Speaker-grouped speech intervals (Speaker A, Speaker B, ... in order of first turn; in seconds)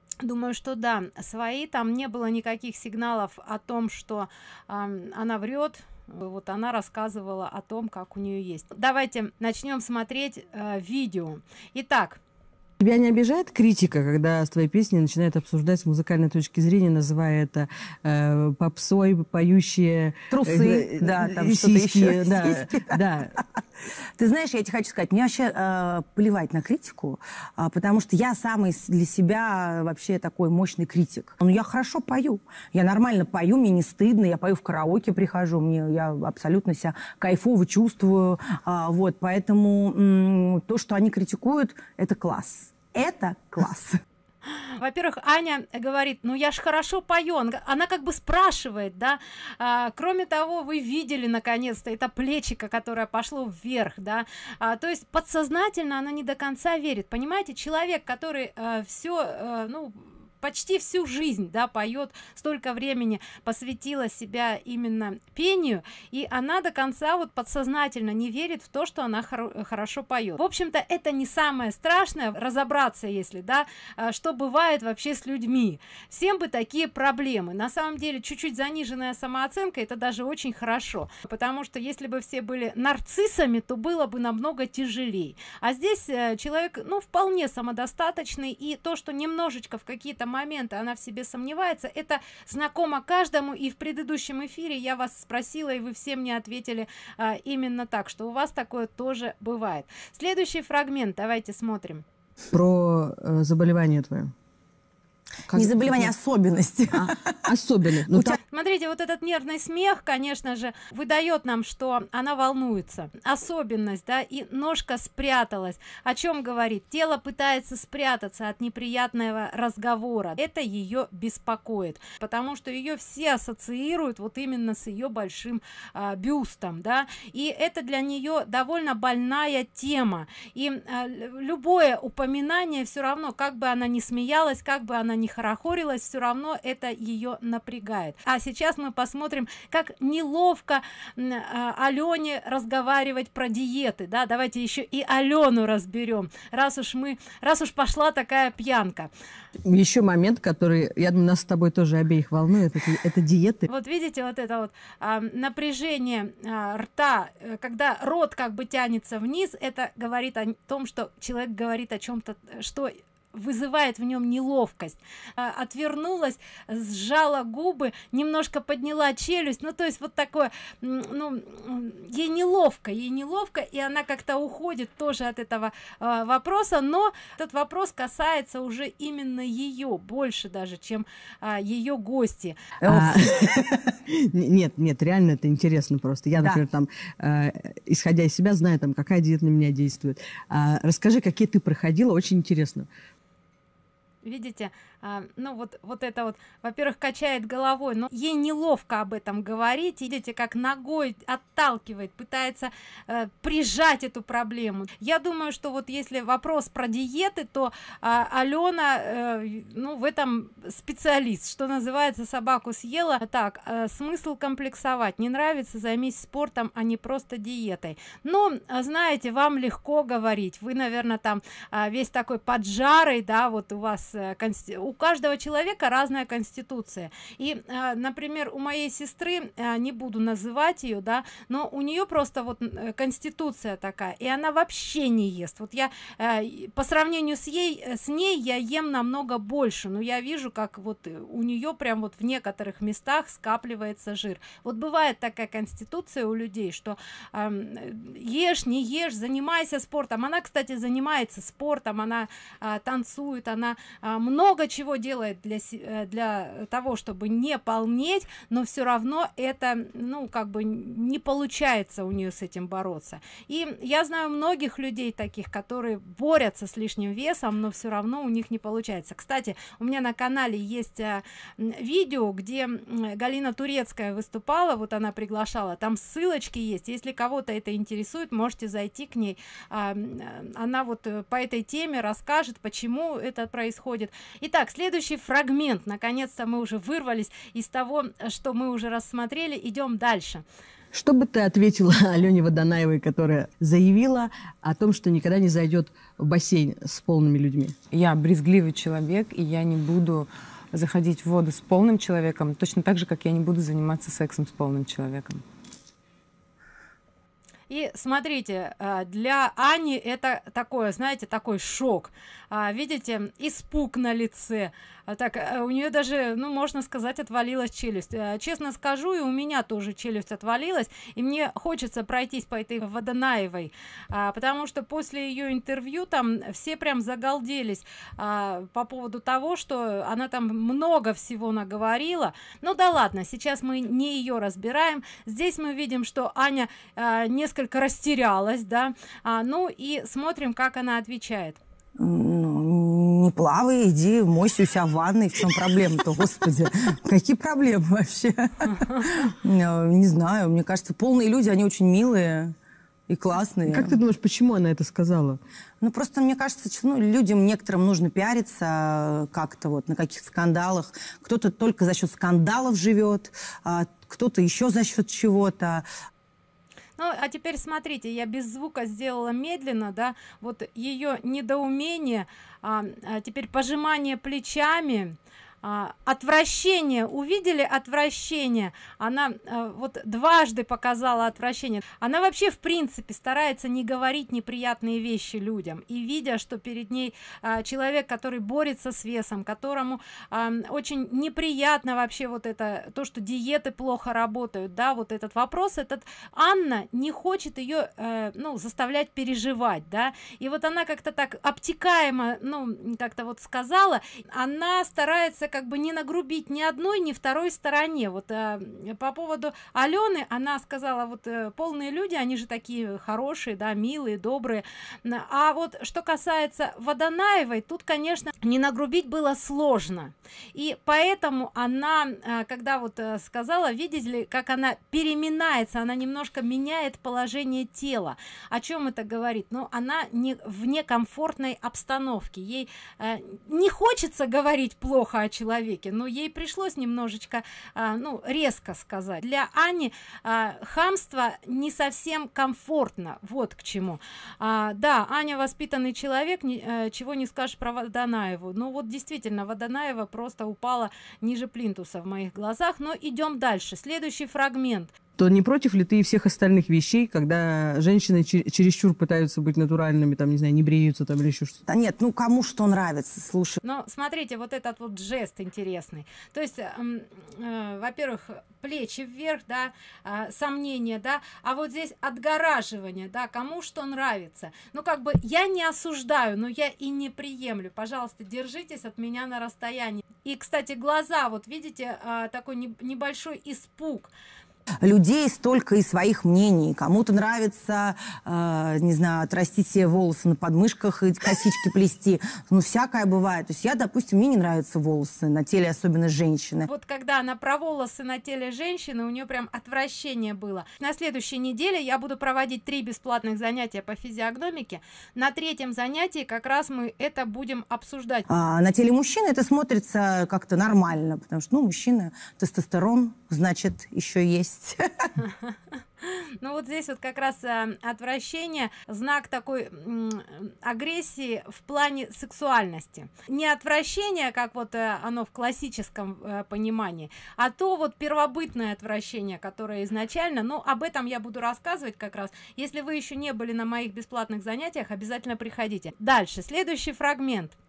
Speaker A: 0.2-12.2, 44.5-102.0, 108.5-149.1, 153.7-182.6, 194.2-290.4, 307.7-341.6, 367.0-454.9, 463.6-484.1, 496.6-508.2, 515.4-537.5
Speaker B: 12.8-23.4, 102.5-104.3, 105.5-106.1, 106.9-108.3, 149.6-153.7, 182.8-192.9, 290.9-297.7, 353.7-355.4, 455.2-461.6
Speaker C: 20.3-23.0, 24.2-44.0, 105.5-107.4, 108.1-108.4, 182.8-183.8, 342.0-352.5, 353.1-353.9, 355.8-365.8, 461.7-463.6, 484.8-496.7, 508.3-515.1
Speaker D: 297.9-305.4